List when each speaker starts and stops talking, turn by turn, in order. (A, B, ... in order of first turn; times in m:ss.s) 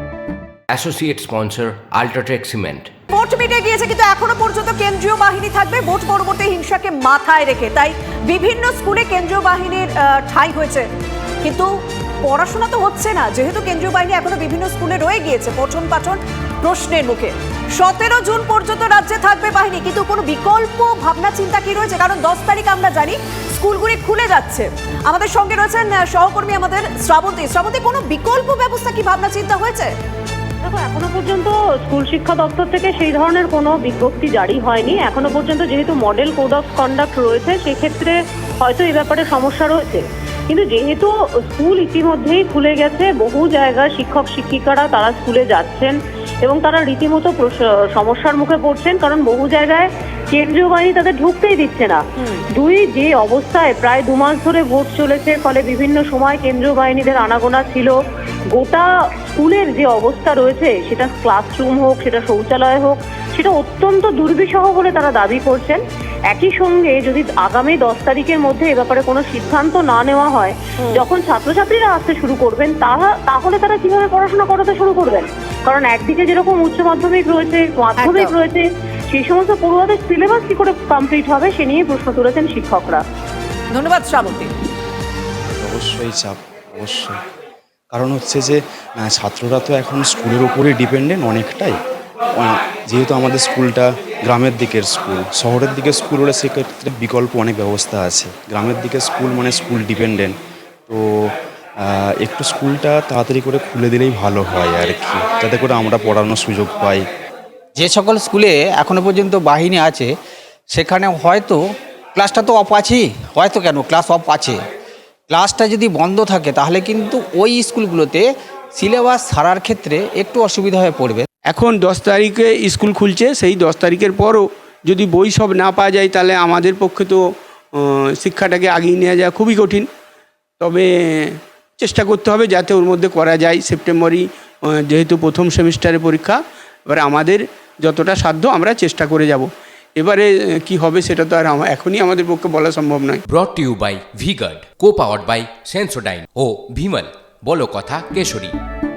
0:00.7-0:02.9 A
0:03.1-0:10.9 B
0:11.4-0:11.7 B
0:12.2-0:29.9 B
0:30.6-0:58.0 C
0:58.5-1:23.0 C
1:18.0-1:18.3 B
1:23.7-1:24.5 B
1:25.6-1:27.2 D
1:27.9-1:31.8 D
1:32.4-1:40.4 D
1:40.9-1:47.0 D
1:47.8-1:50.1 E
1:50.7-1:54.6 E
1:55.3-2:01.3 E
2:01.5-2:07.2 F
2:07.8-2:09.9 F
2:10.6-2:23.2 F
2:23.3-2:28.5 A